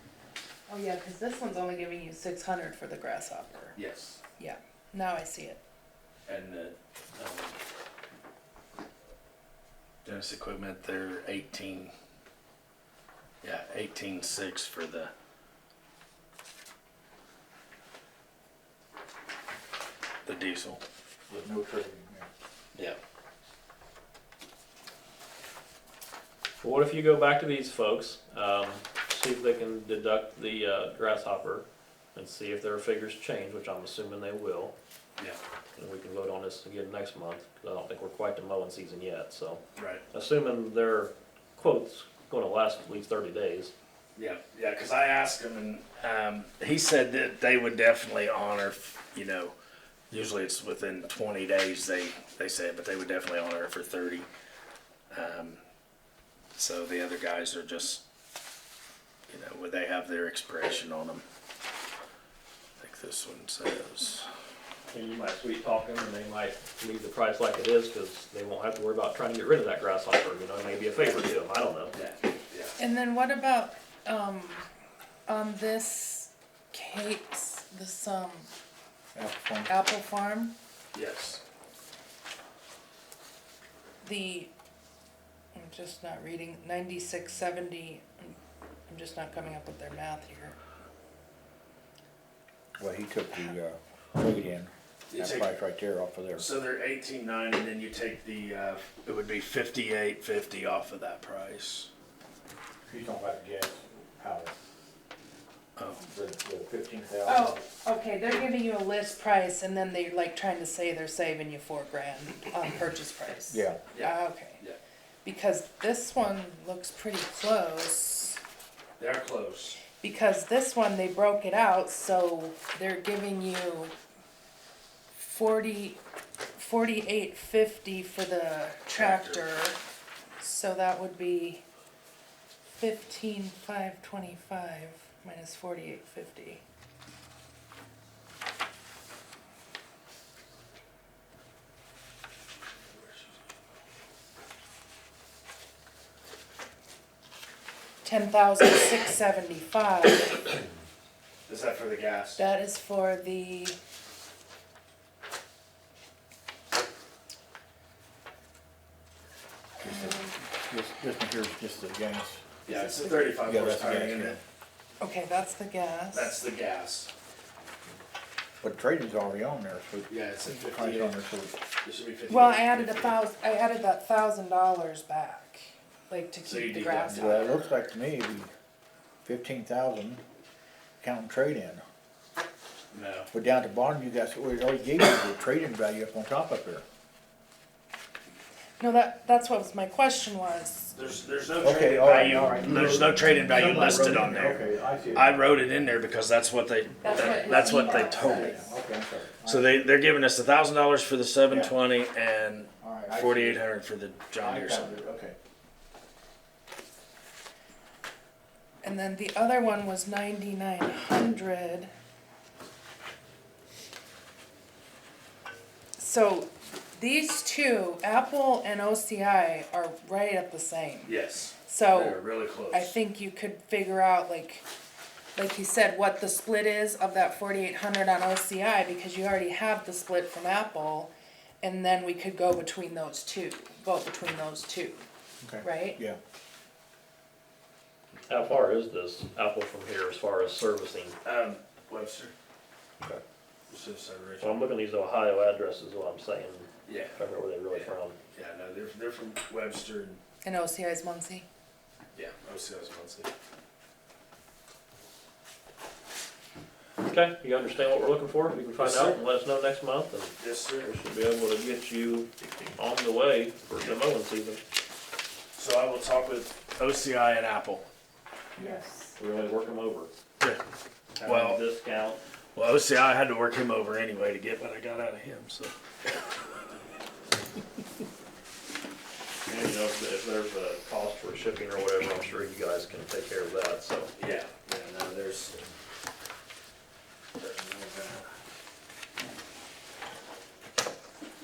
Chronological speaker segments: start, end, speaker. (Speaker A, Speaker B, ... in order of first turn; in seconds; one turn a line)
Speaker A: 0.7-3.8
Speaker B: 3.8-4.2
Speaker A: 4.4-5.6
Speaker B: 6.3-7.6
Speaker B: 10.0-11.9
Speaker B: 13.4-15.1
Speaker B: 20.2-20.8
Speaker C: 21.3-22.3
Speaker D: 26.6-34.7
Speaker D: 35.8-43.7
Speaker B: 39.8-40.0
Speaker B: 44.2-49.5
Speaker B: 50.1-54.3
Speaker B: 55.1-55.6
Speaker B: 56.5-58.0
Speaker B: 59.3-61.2
Speaker B: 62.8-64.3
Speaker D: 64.9-71.9
Speaker B: 71.9-72.8
Speaker A: 72.8-74.7
Speaker A: 75.3-78.5
Speaker C: 79.2-79.7
Speaker A: 79.7-80.5
Speaker B: 80.9-81.4
Speaker A: 84.0-84.5
Speaker A: 85.5-88.4
Speaker A: 88.9-90.6
Speaker C: 92.8-96.5
Speaker B: 95.1-95.5
Speaker B: 96.4-101.9
Speaker C: 102.9-104.5
Speaker B: 105.8-106.0
Speaker C: 106.0-107.7
Speaker A: 107.3-114.6
Speaker C: 113.5-113.8
Speaker B: 113.9-114.8
Speaker A: 115.2-118.4
Speaker B: 119.0-119.8
Speaker A: 119.9-123.9
Speaker A: 125.2-126.0
Speaker A: 126.6-129.8
Speaker B: 128.9-129.4
Speaker A: 130.4-131.6
Speaker A: 132.7-136.6
Speaker A: 148.0-150.5
Speaker B: 151.5-152.4
Speaker A: 152.4-153.8
Speaker C: 159.8-162.5
Speaker A: 159.8-160.3
Speaker A: 162.7-163.4
Speaker B: 162.7-164.4
Speaker C: 163.4-164.4
Speaker A: 165.0-166.4
Speaker B: 166.1-167.1
Speaker C: 168.6-171.6
Speaker B: 170.1-171.2
Speaker B: 171.8-173.2
Speaker A: 172.3-177.6
Speaker B: 176.4-177.6
Speaker C: 177.1-178.5
Speaker C: 179.2-180.2
Speaker C: 181.0-181.8
Speaker B: 182.9-183.3
Speaker C: 183.3-186.8
Speaker A: 188.8-190.9
Speaker B: 190.9-198.6
Speaker C: 191.6-195.4
Speaker A: 197.0-198.6
Speaker C: 197.1-199.9
Speaker B: 199.5-205.0
Speaker C: 201.5-201.7
Speaker C: 202.8-203.6
Speaker C: 204.3-205.3
Speaker A: 208.8-211.9
Speaker A: 216.0-224.7
Speaker B: 221.1-222.9
Speaker A: 225.3-235.0
Speaker C: 235.4-236.2
Speaker A: 235.6-236.0
Speaker D: 238.3-241.2
Speaker B: 241.2-242.3
Speaker B: 243.7-244.7
Speaker D: 244.4-248.2
Speaker B: 246.9-247.2
Speaker B: 247.7-250.2
Speaker A: 250.4-251.5
Speaker B: 252.1-253.3
Speaker D: 257.0-264.6
Speaker B: 258.8-259.2
Speaker B: 260.4-260.9
Speaker B: 265.6-267.9
Speaker A: 268.6-269.2
Speaker D: 269.2-270.1
Speaker D: 271.2-272.2
Speaker B: 271.2-271.6
Speaker B: 272.6-275.8
Speaker D: 279.5-284.1
Speaker B: 284.2-285.6
Speaker B: 287.4-288.3